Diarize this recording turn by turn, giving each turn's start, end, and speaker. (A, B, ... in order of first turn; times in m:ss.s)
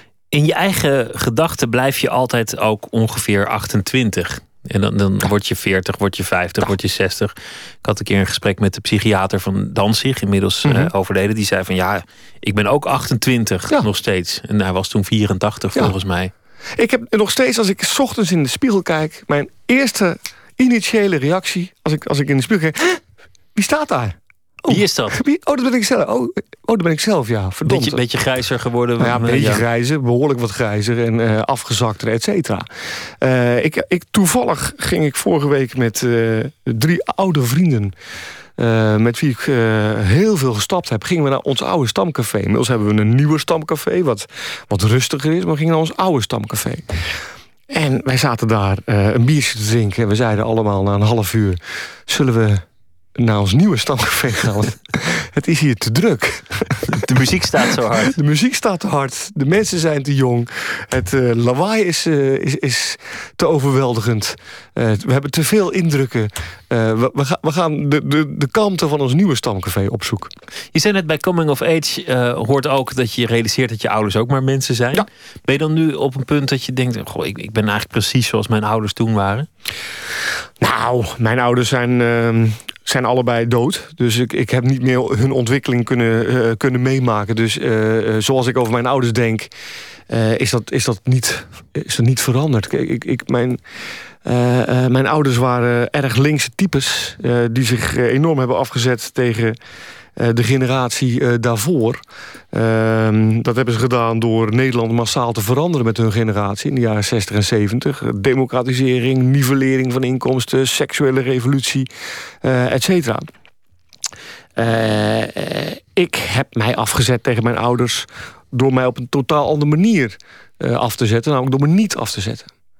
0:00.3-0:16.3 A
0:10.6-0:10.9 B
0:16.8-0:23.0 B
0:23.5-0:28.0 B
0:24.7-0:25.2 A
0:27.6-0:29.6 A
0:29.0-0:37.9 B
0:38.6-0:47.0 B
0:47.7-0:52.6 B
0:53.2-0:56.8 B
0:56.9-0:58.2 A
0:58.0-1:10.3 B
1:10.7-1:19.5 A
1:20.6-1:29.5 B
1:30.1-1:33.6 B
1:34.2-1:39.6 B
1:40.2-1:51.9 B
1:52.4-1:53.3 B
1:54.6-2:02.5 B